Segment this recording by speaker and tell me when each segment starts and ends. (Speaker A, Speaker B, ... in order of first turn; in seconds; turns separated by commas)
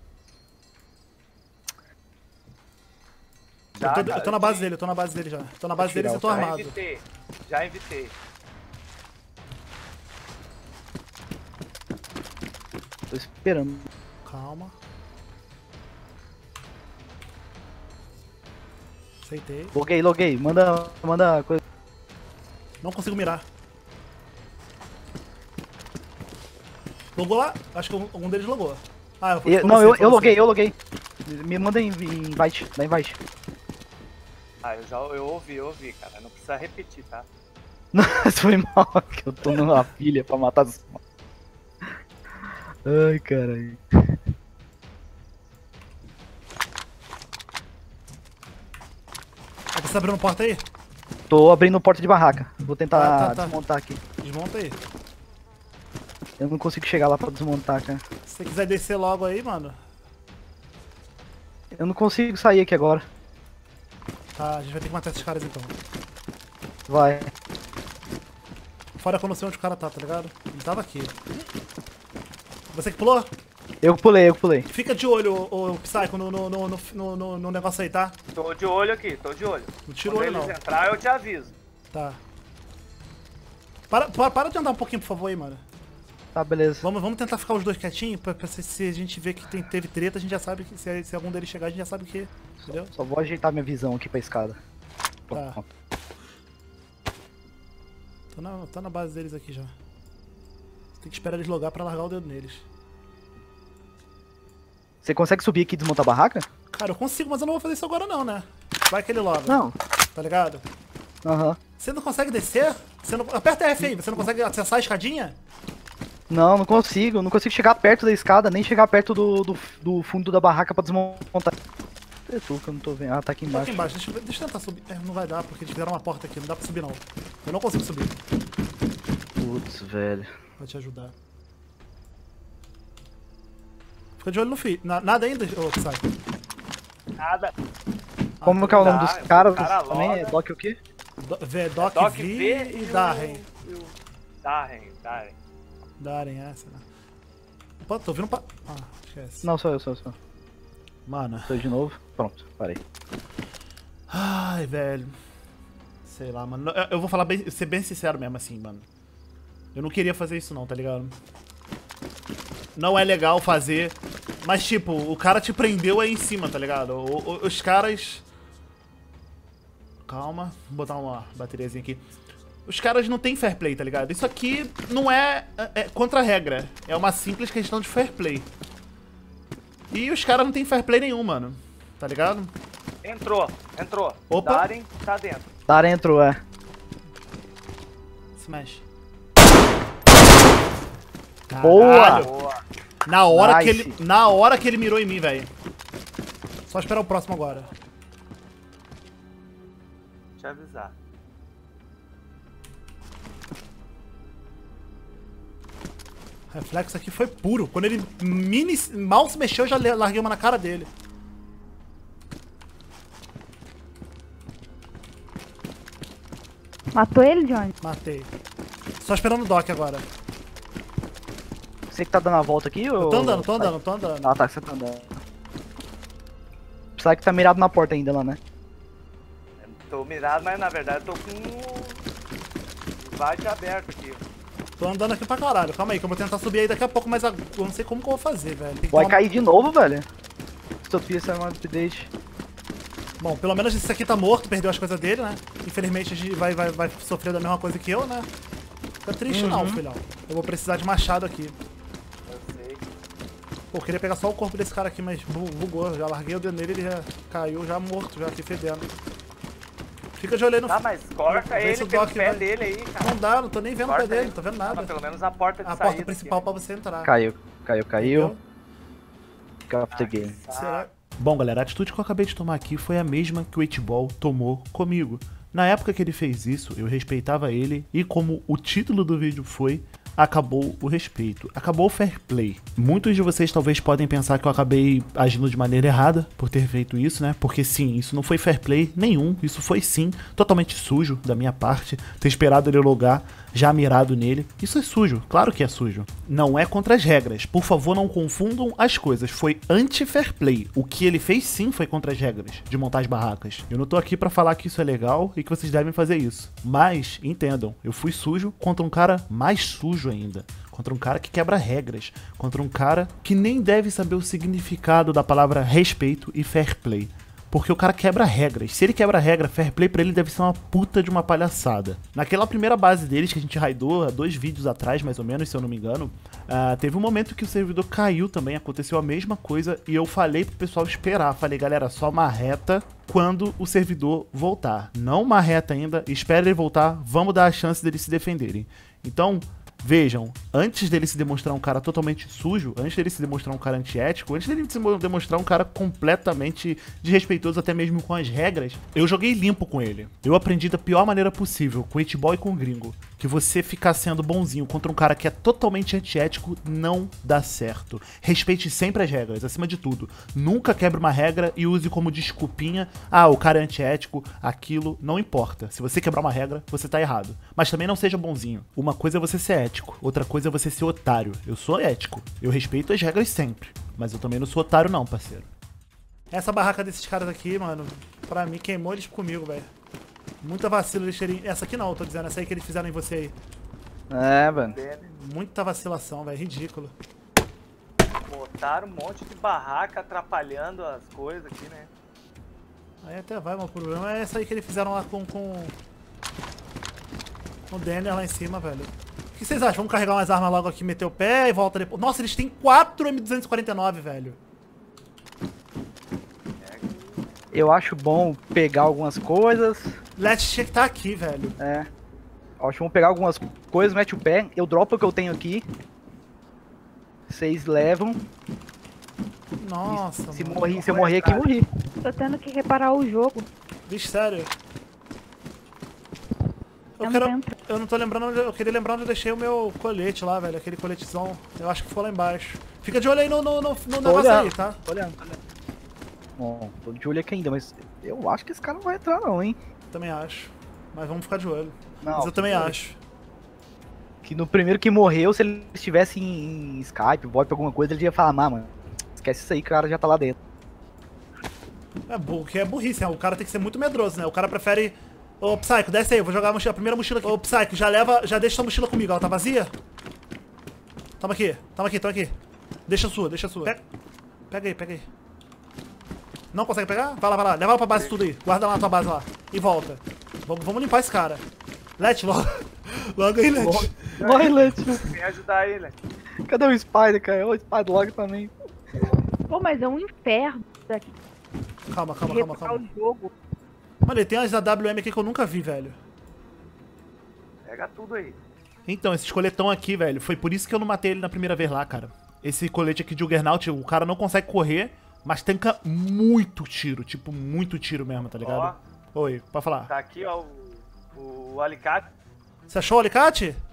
Speaker A: 3.8-4.7, Speaker B: 3.8-6.8, Speaker C: 5.8-6.5, Speaker A: 6.3-8.1, Speaker C: 13.1-13.9, Speaker B: 14.2-14.8, Speaker B: 19.2-19.7, Speaker C: 19.7-21.6, Speaker B: 22.8-23.4, Speaker B: 27.1-30.5, Speaker C: 29.4-33.2, Speaker A: 34.6-37.2, Speaker C: 37.9-41.0, Speaker C: 42.9-44.1, Speaker B: 49.7-50.6, Speaker C: 51.3-54.0, Speaker B: 52.9-53.6, Speaker B: 54.2-54.8, Speaker C: 56.4-58.0, Speaker B: 58.2-59.8, Speaker C: 61.7-63.0, Speaker B: 64.4-65.8, Speaker C: 66.9-67.3, Speaker B: 69.0-71.2, Speaker B: 72.7-73.3, Speaker C: 73.8-74.7, Speaker B: 74.7-78.2, Speaker A: 78.3-81.5, Speaker B: 79.9-80.6, Speaker B: 81.9-82.2, Speaker B: 83.9-85.6, Speaker C: 86.3-86.9, Speaker B: 86.8-92.9, Speaker C: 92.6-94.6, Speaker C: 95.3-95.6, Speaker B: 95.3-95.6, Speaker B: 98.3-99.8, Speaker B: 101.0-102.7, Speaker C: 105.0-106.5, Speaker B: 106.7-109.6, Speaker C: 109.5-109.8, Speaker B: 110.1-110.6, Speaker C: 111.2-111.6, Speaker B: 111.8-115.4, Speaker C: 113.8-114.3, Speaker C: 116.3-121.5, Speaker C: 122.3-123.9, Speaker B: 123.5-128.2, Speaker C: 129.4-130.3, Speaker B: 130.6-131.1, Speaker B: 134.2-136.1, Speaker A: 137.2-137.5, Speaker B: 138.4-139.1, Speaker C: 138.4-140.8, Speaker A: 138.6-140.4, Speaker B: 141.2-143.4, Speaker A: 141.8-145.4, Speaker B: 146.0-146.8, Speaker B: 147.8-149.5, Speaker C: 149.4-150.2, Speaker B: 151.1-151.7, Speaker C: 151.5-152.8, Speaker B: 154.1-155.1, Speaker B: 156.1-158.9, Speaker B: 159.8-161.2, Speaker B: 162.8-168.2, Speaker B: 170.1-172.0, Speaker B: 172.7-178.5, Speaker B: 179.9-182.5, Speaker A: 183.0-185.5, Speaker B: 184.3-184.7, Speaker C: 185.7-186.4, Speaker B: 188.4-188.8, Speaker B: 191.5-192.3, Speaker C: 191.6-192.3, Speaker A: 191.8-192.6, Speaker B: 193.0-195.5, Speaker C: 193.3-194.0, Speaker B: 196.7-197.7, Speaker A: 200.4-200.9, Speaker B: 206.5-210.9, Speaker D: 216.9-217.7, Speaker B: 217.8-218.3, Speaker B: 219.0-220.1, Speaker C: 221.9-225.2, Speaker B: 223.0-224.3, Speaker C: 227.0-228.4, Speaker A: 229.6-232.0, Speaker A: 233.0-234.2, Speaker B: 234.8-239.2, Speaker C: 238.9-240.1, Speaker C: 240.9-242.1, Speaker B: 243.2-248.3, Speaker B: 249.0-251.6, Speaker C: 249.3-249.8, Speaker A: 252.3-252.9, Speaker B: 253.7-258.9, Speaker B: 260.2-264.9, Speaker A: 260.6-263.2, Speaker A: 263.8-266.5, Speaker B: 265.6-267.1, Speaker C: 267.0-268.3, Speaker B: 268.0-268.4, Speaker C: 269.7-270.4, Speaker A: 269.9-270.9, Speaker B: 270.5-375.5, Speaker B: 376.3-379.7, Speaker B: 380.4-383.4, Speaker C: 384.1-384.8, Speaker A: 384.6-385.1, Speaker B: 385.1-386.9, Speaker A: 388.3-391.9, Speaker B: 393.0-395.8, Speaker B: 397.7-404.4, Speaker A: 406.6-407.2, Speaker C: 407.5-410.0, Speaker B: 410.2-411.6, Speaker C: 411.6-411.9, Speaker C: 412.6-415.6, Speaker C: 417.3-418.2, Speaker B: 419.6-420.9, Speaker C: 419.9-421.6, Speaker A: 420.7-421.5, Speaker D: 422.0-423.5, Speaker B: 423.9-424.5, Speaker B: 427.0-434.8, Speaker D: 427.0-427.5, Speaker C: 434.0-435.4, Speaker C: 436.4-439.6, Speaker B: 439.9-443.0, Speaker C: 442.0-442.8, Speaker C: 444.2-450.4, Speaker B: 452.1-459.7, Speaker B: 461.2-462.4, Speaker B: 462.9-463.8, Speaker B: 464.5-465.1, Speaker B: 466.5-471.4, Speaker B: 472.0-474.7, Speaker C: 473.5-475.1, Speaker A: 474.2-476.0, Speaker C: 476.5-478.5, Speaker D: 479.5-481.1, Speaker B: 481.9-482.8, Speaker D: 482.3-483.3, Speaker B: 484.0-486.0, Speaker A: 487.6-488.4, Speaker B: 488.9-499.9, Speaker A: 498.4-498.8, Speaker A: 499.9-502.1, Speaker B: 502.7-503.6